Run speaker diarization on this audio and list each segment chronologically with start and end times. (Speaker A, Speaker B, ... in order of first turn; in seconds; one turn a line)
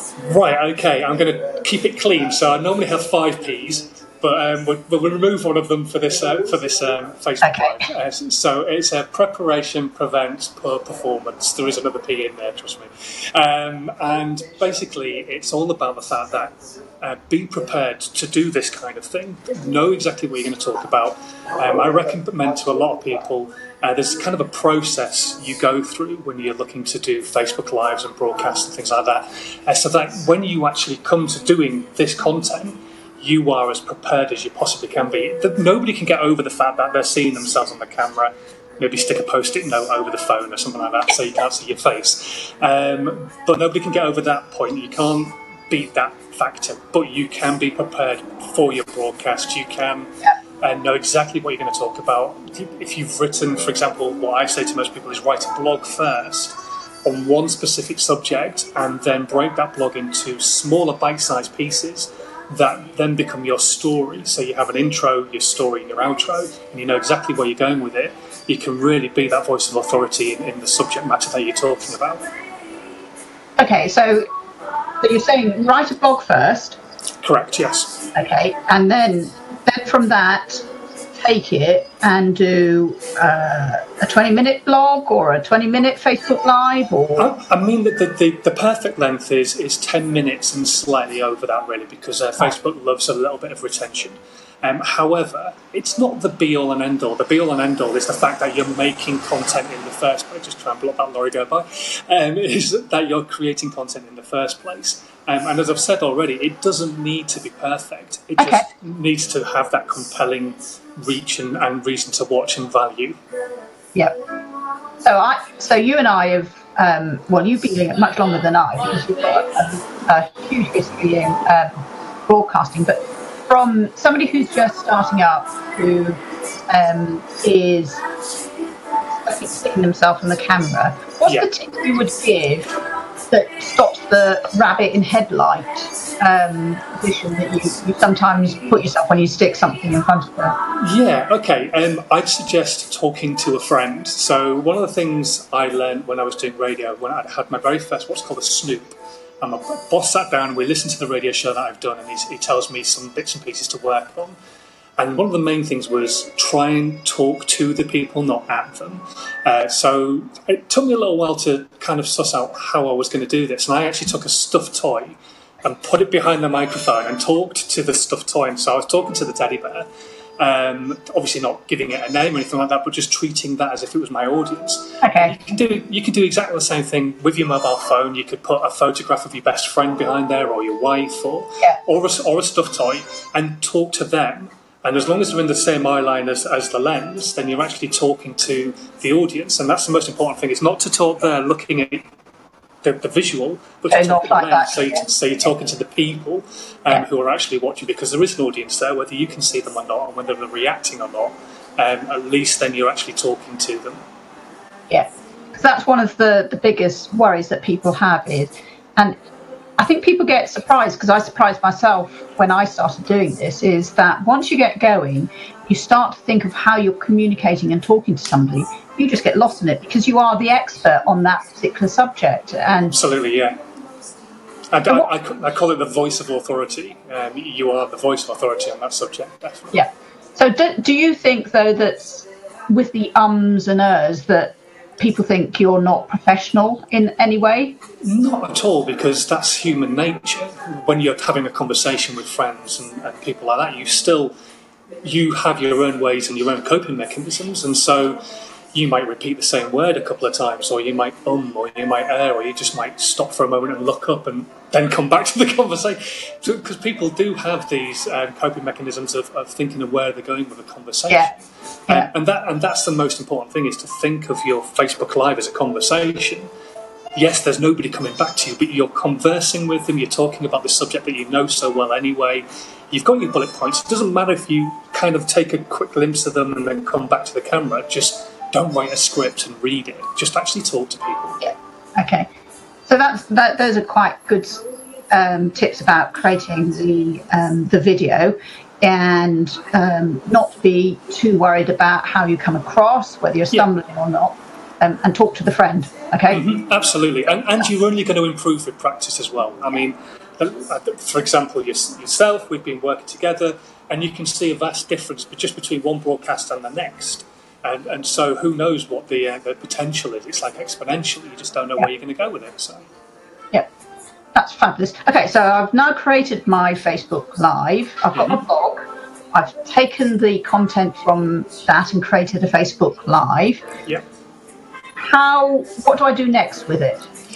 Speaker A: 0.2-50.1
Speaker B: 7.4-7.9
Speaker A: 50.6-72.3
Speaker B: 73.6-74.2
Speaker B: 75.0-76.8
Speaker A: 77.2-78.1
Speaker B: 78.1-87.3
Speaker A: 87.2-113.2
Speaker B: 108.4-108.7
Speaker B: 115.0-128.0
Speaker B: 129.2-132.7
Speaker B: 133.3-140.6
Speaker A: 140.8-154.4
Speaker A: 155.0-169.9
Speaker A: 170.4-192.1
Speaker B: 175.0-175.3
Speaker A: 192.8-204.0
Speaker B: 193.9-195.0
Speaker B: 204.9-209.2
Speaker B: 209.8-223.0
Speaker A: 222.9-223.6
Speaker A: 224.7-229.8
Speaker B: 229.7-237.8
Speaker A: 238.0-244.3
Speaker A: 245.0-248.2
Speaker A: 248.7-266.5
Speaker A: 267.1-281.4
Speaker B: 281.4-282.3
Speaker B: 282.9-296.5
Speaker A: 296.3-312.8
Speaker B: 314.3-323.6
Speaker A: 318.1-318.4
Speaker B: 325.0-327.1